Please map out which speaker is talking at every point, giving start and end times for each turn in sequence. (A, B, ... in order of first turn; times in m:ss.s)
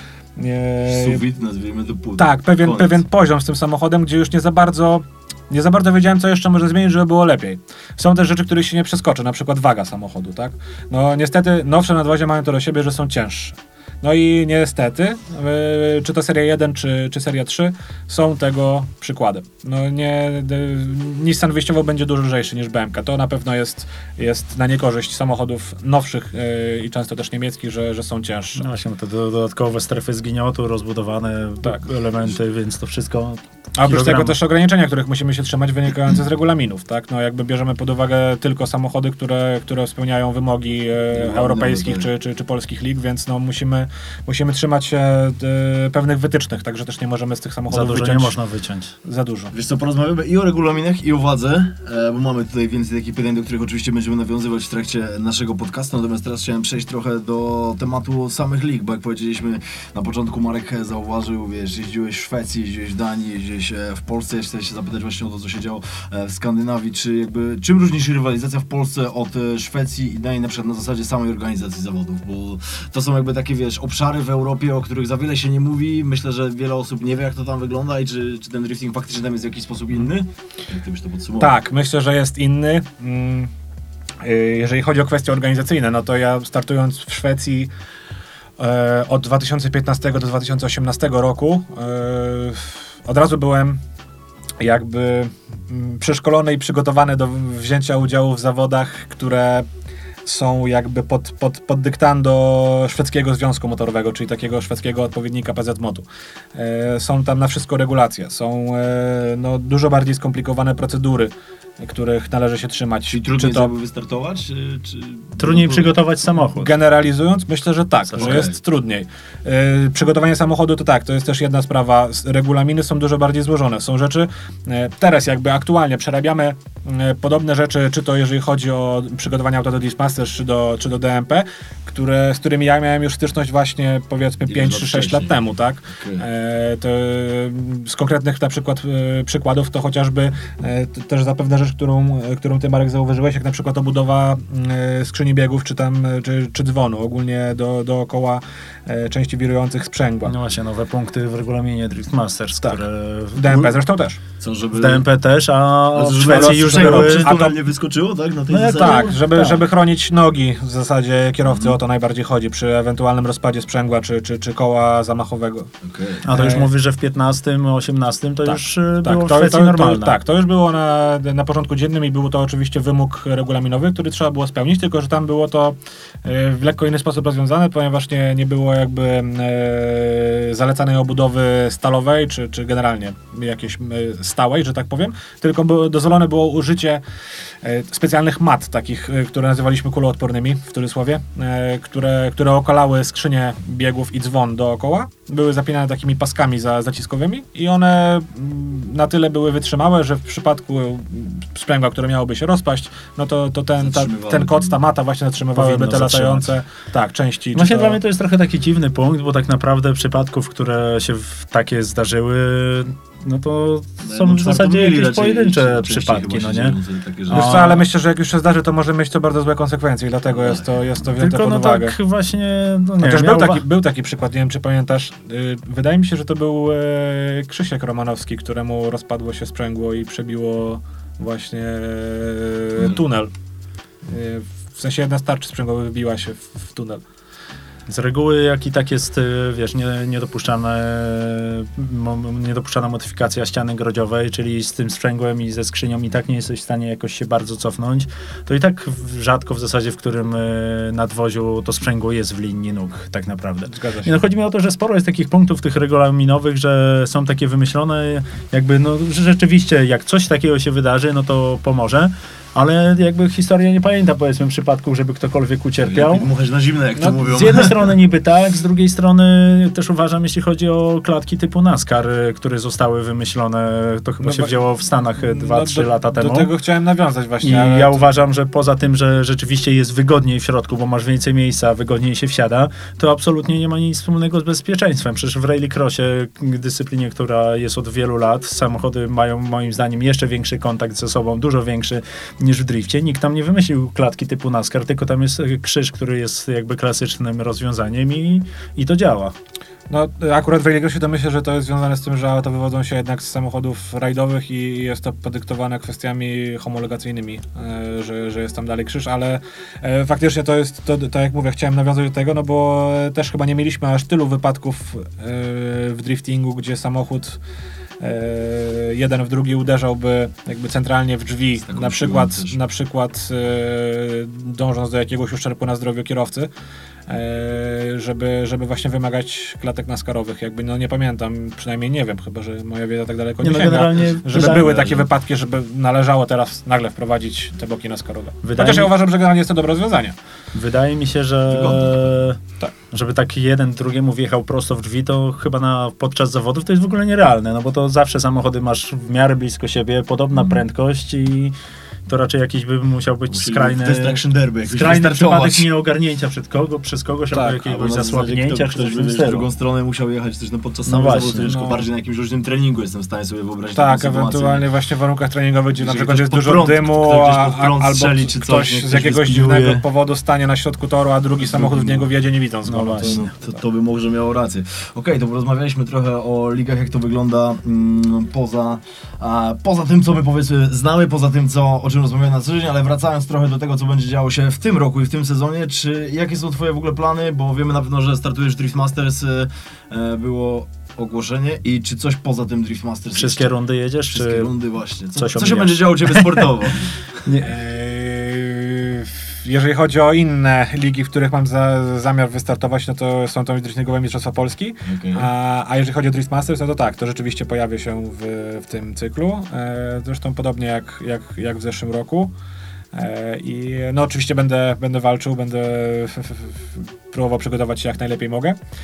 0:00.4-0:01.2 A
0:00.8-0:03.0 B
0:02.2-0:28.6 A
0:28.6-0:34.4 C
0:33.8-0:48.4 A
0:41.1-0:42.1 B
0:47.7-0:49.0 C
0:49.0-0:49.5 A
0:49.5-1:21.5 B
1:21.4-1:23.5 A
1:24.2-1:27.7 A
1:28.6-1:33.8 A
1:34.6-1:39.7 A
1:40.2-1:53.7 A
1:53.1-1:56.0 B
1:55.4-1:56.7 C
1:56.4-2:30.3 A
1:58.1-1:58.5 C
1:58.2-1:58.6 B
2:14.5-2:15.4 B
2:15.9-2:16.3 B
2:30.2-2:33.8 C
2:33.4-2:34.2 A
2:34.4-2:35.0 B
2:34.7-2:37.3 C
2:35.9-2:39.2 B
2:36.2-2:37.6 A
2:38.5-2:45.7 A
2:38.6-2:39.6 C
2:41.5-2:41.8 B
2:45.8-2:46.3 B
2:46.2-2:50.2 C
2:46.3-2:46.7 A
2:48.5-3:07.0 A
3:07.6-3:28.0 A
3:23.8-3:24.8 B
3:25.5-3:26.5 C
3:27.5-3:36.8 C
3:34.0-3:37.7 B
3:37.3-3:37.9 C
3:37.3-3:42.0 A
3:40.3-3:40.7 B
3:41.2-3:43.6 C
3:43.0-3:53.3 A
3:54.0-3:57.0 A
3:57.9-4:26.3 C
4:13.7-4:14.2 A
4:25.8-4:27.9 B
4:27.2-4:36.5 C
4:34.2-4:34.6 A
4:35.2-4:38.1 A
4:37.4-4:59.4 C
4:59.9-5:17.4 A
5:18.0-5:26.5 A
5:21.6-5:22.6 B
5:27.1-5:40.2 A
5:33.4-5:34.8 C
5:34.4-5:35.0 B
5:38.4-5:38.9 C
5:40.5-5:51.6 C
5:41.5-5:42.2 B
5:52.1-5:59.5 C
5:53.3-5:55.7 B
5:57.3-6:04.6 B
6:00.9-6:01.5 C
6:01.4-6:01.9 A
6:03.8-6:13.2 A
6:05.8-6:09.8 B
6:11.4-6:12.1 B
6:12.7-6:13.3 C
6:13.0-6:33.5 B
6:33.2-6:34.5 C
6:34.1-6:37.0 B
6:35.2-6:36.5 C
6:37.2-6:37.5 C
6:37.4-6:52.3 A
6:44.8-6:45.3 B
6:52.9-6:58.6 A